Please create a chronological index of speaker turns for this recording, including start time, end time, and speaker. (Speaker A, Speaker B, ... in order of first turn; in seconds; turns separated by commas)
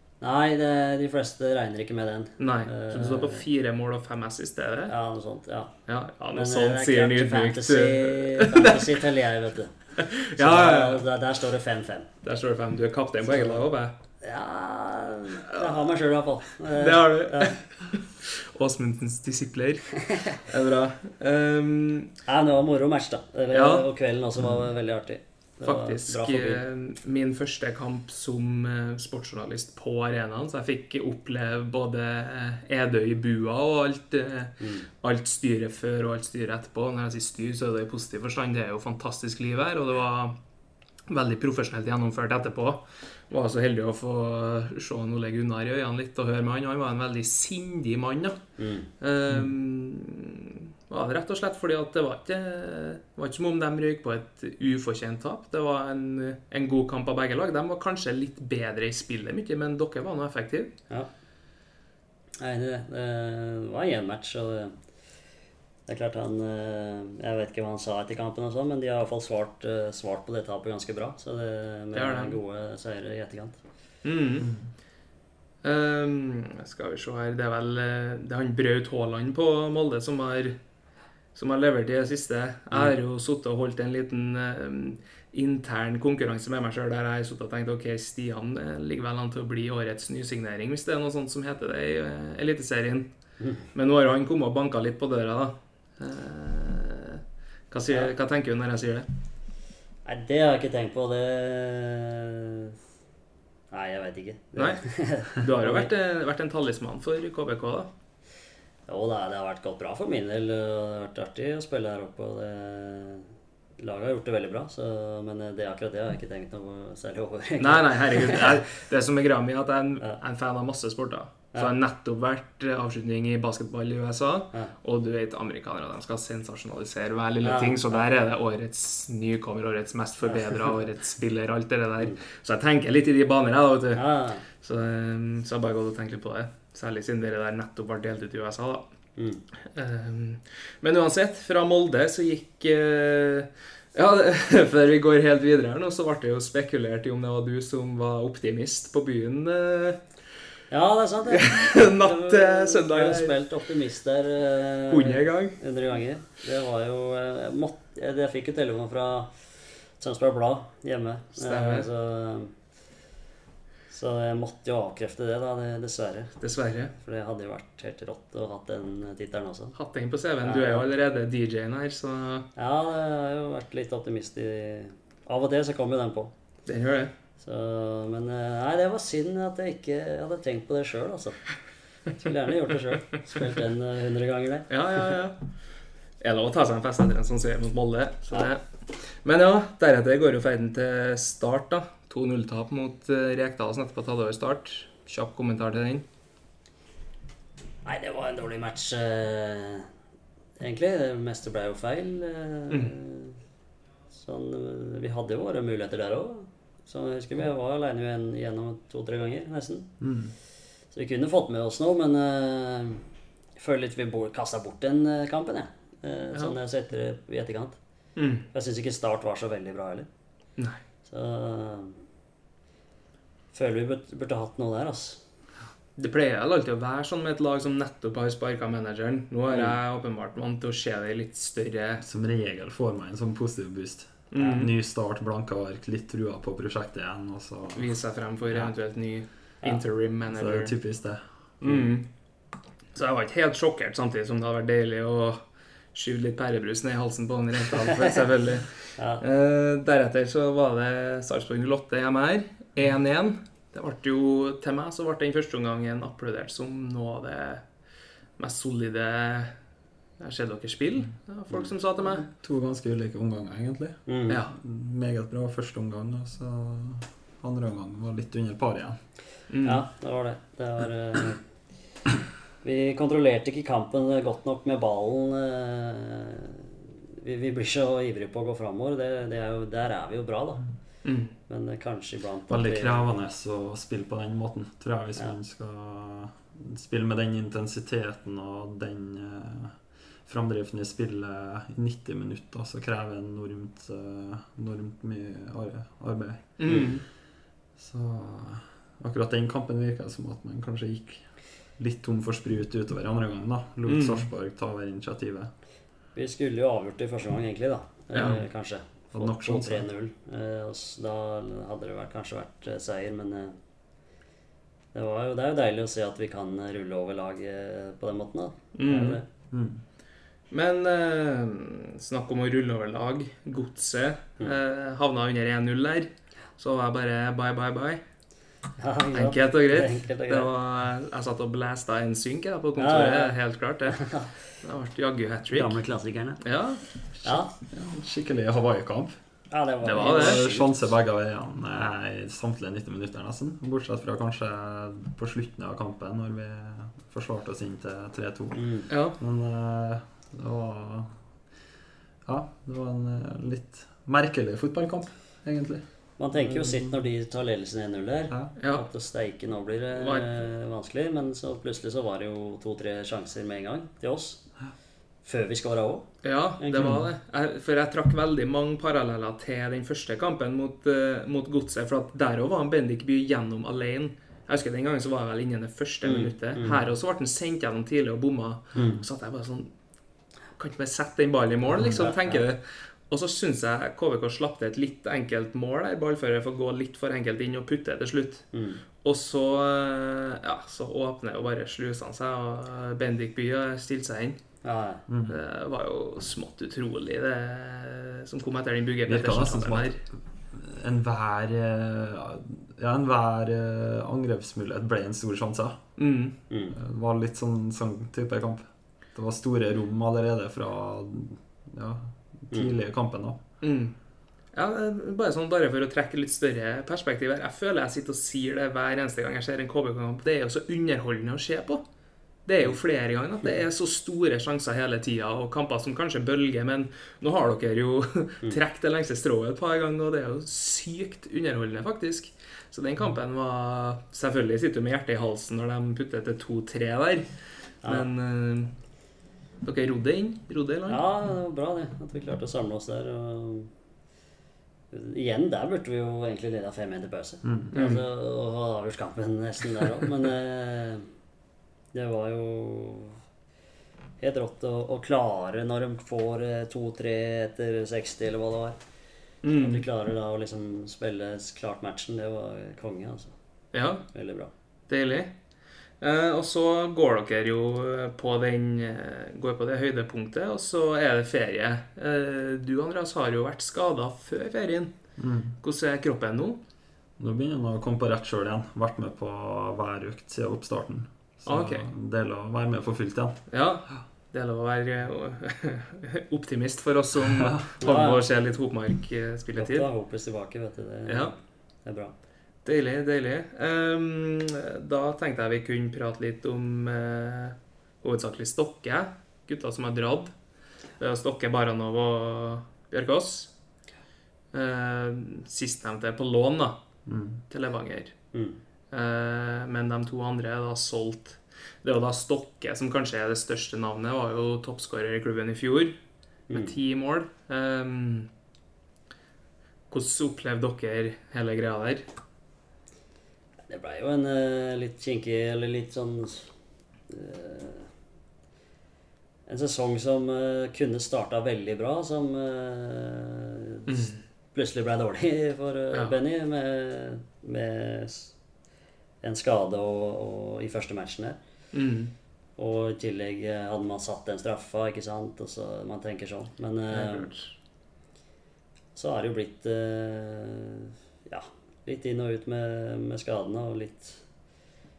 Speaker A: 0.2-3.4, Speaker B: 2.4-4.9, Speaker A: 4.9-5.7, Speaker B: 5.9-9.1, Speaker A: 6.3-12.1, Speaker B: 10.0-11.1, Speaker B: 12.2-13.9, Speaker A: 13.2-13.7, Speaker A: 14.2-17.6, Speaker B: 15.5-15.9, Speaker B: 16.7-22.1, Speaker A: 20.0-20.4, Speaker A: 22.2-26.6, Speaker B: 23.5-23.9, Speaker B: 25.6-40.4, Speaker A: 34.6-34.9, Speaker B: 41.1-48.4, Speaker A: 48.6-48.9, Speaker B: 49.0-60.7, Speaker A: 62.4-64.8, Speaker A: 65.9-73.6, Speaker B: 71.9-72.4, Speaker B: 74.0-74.5, Speaker C: 74.4-74.7, Speaker B: 75.6-80.6, Speaker B: 81.3-93.1, Speaker A: 93.4-93.7, Speaker B: 93.7-99.1, Speaker A: 97.9-98.1, Speaker A: 100.0-102.7, Speaker A: 103.7-105.9, Speaker B: 104.5-107.9, Speaker A: 108.9-118.6, Speaker B: 117.6-138.8, Speaker A: 127.4-128.3, Speaker A: 130.2-130.7, Speaker A: 133.9-134.4, Speaker A: 139.2-139.4, Speaker B: 139.6-150.0, Speaker A: 150.7-162.5, Speaker B: 151.3-153.3, Speaker B: 154.9-155.6, Speaker B: 161.4-161.9, Speaker A: 163.9-166.4, Speaker B: 166.4-166.9, Speaker A: 166.9-169.7, Speaker B: 169.8-172.5, Speaker A: 170.4-170.9, Speaker A: 172.6-176.3, Speaker B: 176.7-177.1, Speaker A: 177.4-181.5, Speaker A: 182.1-184.7, Speaker B: 184.7-185.5, Speaker B: 186.2-196.0, Speaker A: 197.8-199.9, Speaker A: 200.6-203.4, Speaker A: 204.1-209.9, Speaker C: 210.0-210.3, Speaker A: 210.9-213.0, Speaker A: 213.6-217.8, Speaker B: 218.2-218.5, Speaker A: 218.5-220.1, Speaker A: 221.1-221.9, Speaker A: 223.5-225.2, Speaker B: 226.0-232.0, Speaker C: 232.0-237.9, Speaker B: 234.3-234.7, Speaker B: 237.8-240.7, Speaker C: 240.3-241.8, Speaker B: 241.6-242.1, Speaker B: 242.9-245.4, Speaker B: 245.9-257.6, Speaker A: 249.0-249.2, Speaker B: 258.4-259.5, Speaker B: 260.2-262.3, Speaker C: 262.2-264.0, Speaker A: 264.1-264.4, Speaker B: 264.3-264.5, Speaker C: 264.5-269.0, Speaker B: 269.5-269.8, Speaker A: 269.6-271.4, Speaker A: 272.6-280.6, Speaker B: 281.0-281.3, Speaker A: 281.4-283.1, Speaker C: 282.5-296.9, Speaker B: 296.6-297.0, Speaker A: 296.6-297.0, Speaker C: 297.8-305.5, Speaker B: 303.9-304.3, Speaker A: 306.1-313.5, Speaker B: 308.1-308.4, Speaker C: 309.1-309.9, Speaker A: 314.9-319.2, Speaker B: 318.7-319.2, Speaker C: 319.5-319.8, Speaker B: 320.5-328.0, Speaker A: 328.8-330.5, Speaker B: 329.1-335.8, Speaker A: 332.8-333.4, Speaker A: 333.9-334.3, Speaker A: 335.5-336.4, Speaker B: 336.4-337.4, Speaker A: 337.2-337.5, Speaker C: 337.7-339.1, Speaker A: 339.5-340.9, Speaker B: 339.8-340.4, Speaker C: 339.9-351.2, Speaker A: 348.6-348.9, Speaker B: 348.9-349.2, Speaker C: 352.2-355.8, Speaker A: 356.2-364.4, Speaker C: 356.5-356.9, Speaker B: 358.6-358.8, Speaker B: 359.9-360.4, Speaker A: 365.2-366.1, Speaker B: 366.2-379.7, Speaker A: 366.6-367.0, Speaker C: 366.8-367.1, Speaker A: 376.0-376.8, Speaker A: 378.7-379.0, Speaker B: 380.6-388.5, Speaker A: 381.7-382.4, Speaker A: 388.5-388.8, Speaker B: 389.0-394.4, Speaker A: 394.6-395.0, Speaker C: 395.1-395.4, Speaker B: 395.3-400.0, Speaker C: 399.1-405.8, Speaker B: 406.0-406.4, Speaker A: 406.5-406.8, Speaker C: 406.7-413.4, Speaker B: 413.6-413.9, Speaker B: 414.5-421.8, Speaker B: 422.4-437.3, Speaker A: 437.8-438.1, Speaker B: 437.8-438.7, Speaker B: 439.6-441.0, Speaker A: 440.9-443.7, Speaker A: 444.9-451.1, Speaker C: 447.4-447.7, Speaker B: 447.7-448.0, Speaker A: 451.9-453.2, Speaker A: 454.2-458.8, Speaker B: 459.4-459.8, Speaker A: 459.5-463.3, Speaker B: 463.7-464.1, Speaker A: 464.1-464.5, Speaker B: 464.9-465.3, Speaker B: 466.0-474.9, Speaker C: 475.2-475.6, Speaker B: 475.6-476.6, Speaker C: 477.2-483.4, Speaker B: 481.4-481.9, Speaker B: 483.5-489.9, Speaker C: 487.3-487.6, Speaker A: 487.8-488.2, Speaker A: 489.6-491.3, Speaker B: 491.1-491.3, Speaker A: 491.8-492.1, Speaker B: 492.6-500.3, Speaker B: 501.0-503.5, Speaker B: 504.5-506.8, Speaker C: 507.1-507.4, Speaker B: 507.5-508.1, Speaker A: 508.3-508.6, Speaker B: 508.9-516.0, Speaker A: 516.5-516.8, Speaker B: 516.5-518.3, Speaker B: 519.9-522.0, Speaker A: 523.7-526.5, Speaker A: 527.1-527.9, Speaker A: 529.5-538.3, Speaker B: 533.9-534.2, Speaker A: 539.2-541.4, Speaker B: 541.7-542.1, Speaker A: 542.6-547.3, Speaker B: 546.9-547.5, Speaker A: 548.9-554.2